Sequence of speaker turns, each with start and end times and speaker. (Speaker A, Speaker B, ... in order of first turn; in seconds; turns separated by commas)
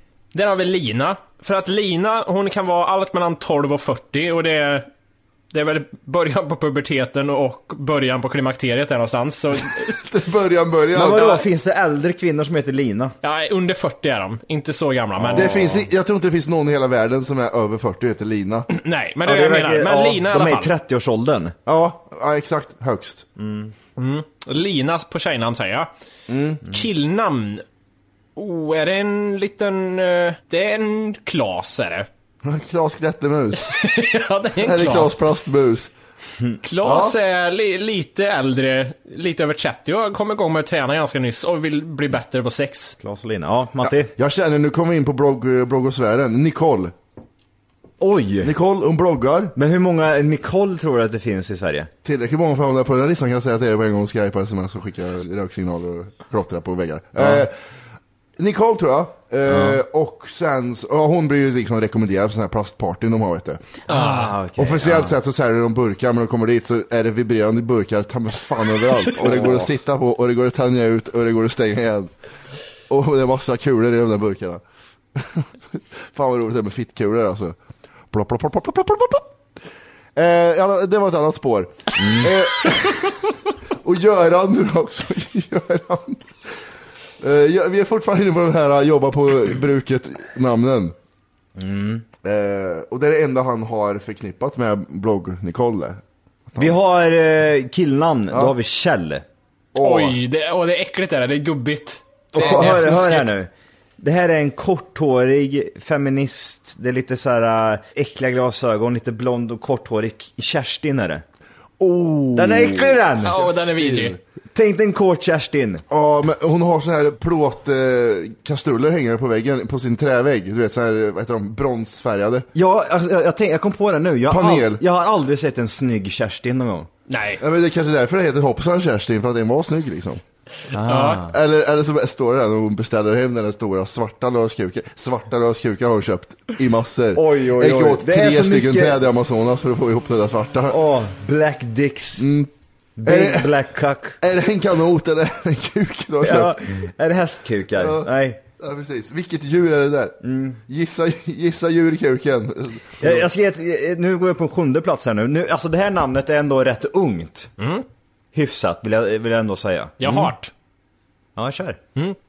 Speaker A: 0.3-4.9, Speaker A: 5.5-9.9, Speaker B: 9.9-11.3, Speaker C: 10.9-13.2, Speaker A: 11.1-11.4, Speaker A: 13.2-15.8, Speaker C: 15.2-15.9, Speaker B: 15.3-18.7, Speaker A: 18.7-20.7, Speaker C: 19.2-21.6, Speaker B: 21.7-23.3, Speaker C: 23.4-23.7, Speaker A: 24.0-25.9, Speaker B: 26.3-26.6, Speaker A: 26.7-27.6, Speaker A: 28.4-32.1, Speaker B: 32.4-33.7, Speaker A: 33.6-35.2, Speaker B: 34.6-35.9, Speaker A: 36.6-43.0, Speaker B: 36.8-37.2, Speaker C: 43.0-44.1, Speaker B: 43.8-46.9, Speaker C: 48.0-48.5, Speaker B: 48.4-49.5, Speaker C: 49.5-51.9, Speaker B: 52.0-57.5, Speaker C: 57.2-57.5, Speaker B: 58.4-63.6, Speaker C: 59.5-59.8, Speaker A: 63.9-64.4, Speaker C: 63.9-65.2, Speaker B: 64.6-72.1, Speaker C: 69.2-69.7, Speaker B: 72.9-74.6, Speaker B: 75.2-77.6, Speaker B: 78.1-79.3, Speaker B: 80.2-83.2, Speaker C: 82.0-82.4, Speaker B: 83.8-86.4, Speaker B: 87.2-90.9, Speaker C: 91.6-92.1, Speaker B: 92.2-96.8, Speaker C: 96.6-99.2, Speaker B: 99.7-100.2, Speaker A: 99.8-103.3, Speaker C: 102.3-111.2, Speaker B: 102.4-102.7, Speaker B: 111.8-114.2, Speaker C: 112.3-113.4, Speaker A: 113.2-114.2, Speaker C: 114.5-115.8, Speaker B: 115.9-122.5, Speaker C: 122.5-126.9, Speaker B: 124.3-124.8, Speaker A: 127.1-127.4, Speaker B: 127.4-130.2, Speaker C: 130.7-131.3, Speaker A: 130.8-131.3, Speaker B: 131.3-140.8, Speaker C: 137.1-139.1, Speaker C: 140.7-142.3, Speaker B: 142.2-142.5, Speaker C: 143.0-144.2, Speaker B: 143.1-143.5, Speaker B: 144.2-146.6, Speaker C: 146.2-148.4, Speaker B: 147.8-148.1, Speaker B: 148.6-153.3, Speaker C: 150.2-150.6, Speaker C: 153.0-157.5, Speaker A: 157.6-157.8, Speaker C: 158.3-160.3, Speaker A: 160.0-160.5, Speaker C: 161.4-161.8